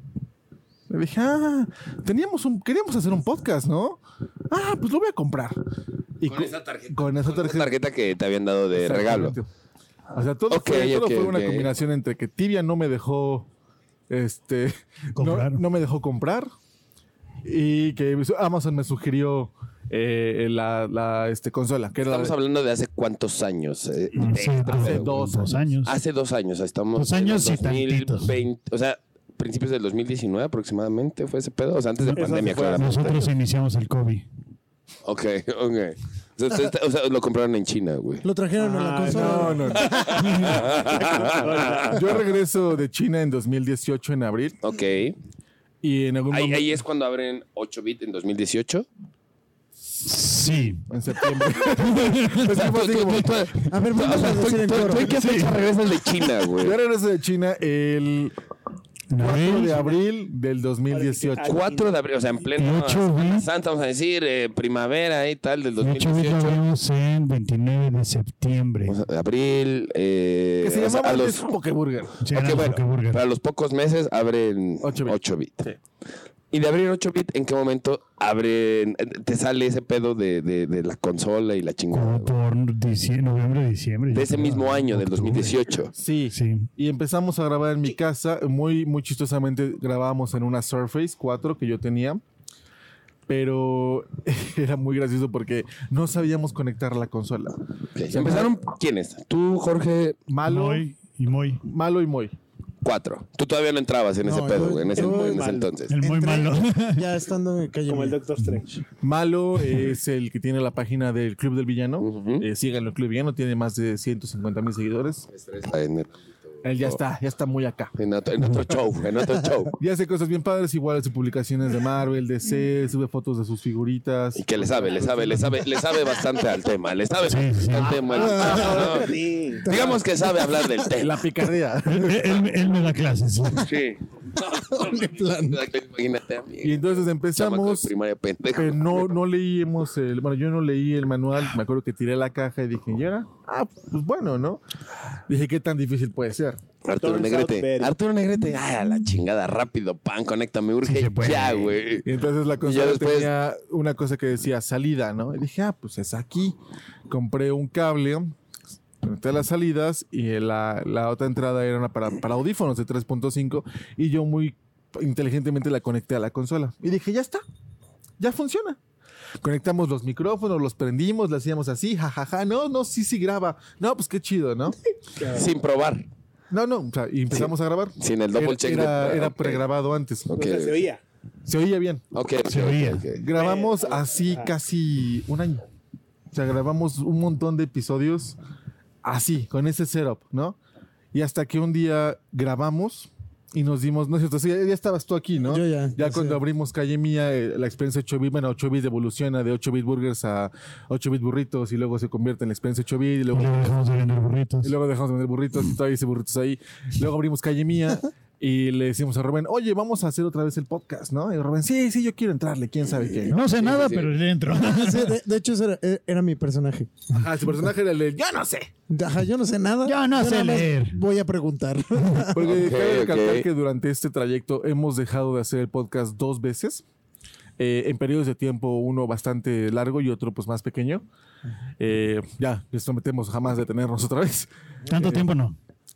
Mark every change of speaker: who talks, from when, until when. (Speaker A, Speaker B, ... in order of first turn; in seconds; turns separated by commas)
Speaker A: 0.9-5.6, Speaker A: 6.2-7.7, Speaker B: 6.2-9.3, Speaker A: 8.7-9.5, Speaker A: 10.1-13.5, Speaker B: 10.5-11.7, Speaker A: 14.1-16.5, Speaker C: 15.2-15.6, Speaker A: 17.4-22.4, Speaker B: 22.0-25.3, Speaker C: 24.2-25.9, Speaker A: 24.7-25.8, Speaker B: 25.8-33.2, Speaker C: 26.9-28.3, Speaker D: 32.1-33.1, Speaker C: 32.7-34.2, Speaker B: 35.0-38.2, Speaker E: 38.2-40.3, Speaker D: 38.6-42.2, Speaker A: 39.1-39.9, Speaker B: 39.9-42.1, Speaker A: 41.8-44.6, Speaker B: 44.6-45.2, Speaker A: 45.8-46.8, Speaker B: 46.3-48.9, Speaker C: 50.0-50.8, Speaker A: 50.8-53.6, Speaker C: 51.8-52.5, Speaker B: 52.4-56.8, Speaker E: 53.7-55.1, Speaker C: 55.0-55.6, Speaker A: 56.5-58.3, Speaker C: 59.1-60.0, Speaker A: 59.2-61.6, Speaker D: 60.9-61.9, Speaker B: 61.4-66.6, Speaker C: 62.5-63.5, Speaker C: 65.8-69.0, Speaker B: 68.8-71.5, Speaker A: 70.6-72.2, Speaker C: 72.2-73.2, Speaker B: 72.3-75.7, Speaker A: 74.8-75.2, Speaker B: 76.5-82.3, Speaker C: 81.9-85.5, Speaker B: 84.1-85.9, Speaker A: 85.9-92.2, Speaker C: 86.3-86.7, Speaker A: 93.3-98.7, Speaker B: 97.9-100.2, Speaker A: 100.3-100.9, Speaker C: 100.5-101.6, Speaker A: 101.6-102.3, Speaker B: 102.8-106.0, Speaker E: 104.2-108.2, Speaker D: 104.9-105.7, Speaker C: 105.9-107.0, Speaker D: 107.9-108.7, Speaker A: 109.0-115.3, Speaker B: 112.0-112.5, Speaker B: 115.3-117.0, Speaker A: 116.6-117.9, Speaker B: 118.0-119.7, Speaker A: 119.8-125.6, Speaker B: 124.3-131.2, Speaker C: 127.2-128.0, Speaker D: 128.1-129.7, Speaker E: 128.1-128.8, Speaker E: 129.6-130.8, Speaker A: 131.0-132.5, Speaker C: 131.9-133.7, Speaker B: 133.6-139.2, Speaker E: 134.7-135.6, Speaker A: 136.6-137.9, Speaker A: 138.6-144.6, Speaker A: 145.3-146.6, Speaker B: 146.8-152.1, Speaker D: 147.0-147.9, Speaker C: 150.8-151.7, Speaker A: 152.0-156.6, Speaker B: 152.6-153.3, Speaker A: 157.1-158.3, Speaker A: 159.0-167.4, Speaker A: 168.2-168.8, Speaker A: 169.4-174.8, Speaker D: 175.2-175.5, Speaker B: 175.2-176.1, Speaker A: 176.5-180.3, Speaker B: 177.3-179.6, Speaker B: 180.3-180.8, Speaker D: 180.3-181.0, Speaker A: 181.4-182.0, Speaker B: 182.1-183.2, Speaker C: 182.4-183.1, Speaker A: 183.2-185.6, Speaker D: 183.3-184.5, Speaker A: 186.3-188.4, Speaker A: 189.0-190.6, Speaker A: 191.1-203.8, Speaker E: 195.4-196.4, Speaker C: 203.3-204.7, Speaker A: 204.6-213.4, Speaker C: 213.2-215.1, Speaker B: 213.6-214.2, Speaker E: 214.5-216.9, Speaker A: 217.1-218.7, Speaker E: 218.9-222.4, Speaker C: 219.8-221.0, Speaker A: 222.3-226.8, Speaker B: 222.4-223.5, Speaker A: 227.6-231.0, Speaker A: 231.8-235.3, Speaker C: 234.9-235.6